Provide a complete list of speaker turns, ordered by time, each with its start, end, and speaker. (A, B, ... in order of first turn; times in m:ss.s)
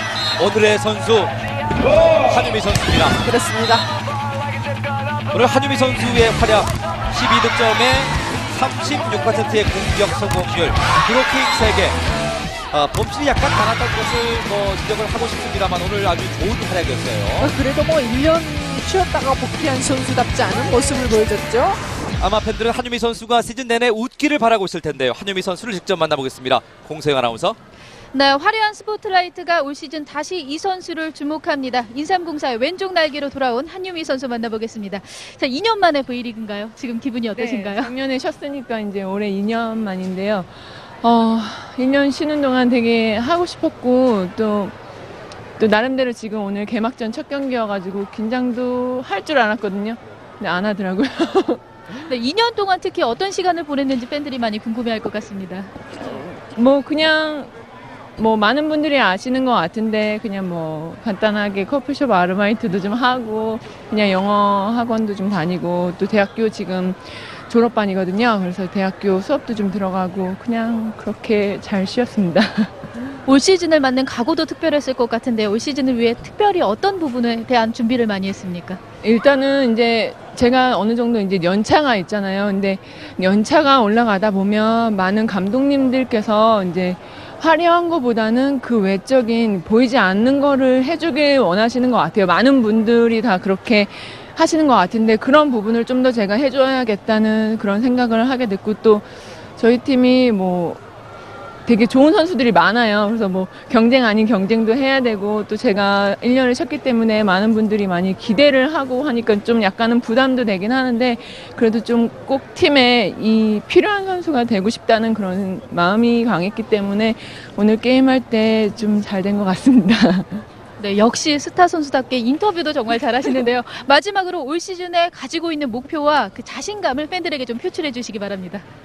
0:00.4-0:01.3 A
0:02.2-0:03.2 A
0:03.2-0:03.9 B
0:05.3-0:12.0 A
0:12.7-0:17.5 A
0:17.4-0:21.8 B
0:22.2-0:27.6 A
0:28.1-0:37.9 C
0:37.3-0:44.8 D
0:45.6-0:51.6 D
0:52.0-0:55.7 C
0:56.0-0:57.5 D
0:58.2-1:12.8 D
1:13.3-1:18.8 C
1:19.0-1:40.8 D
1:41.7-2:00.4 D
2:00.8-2:08.6 C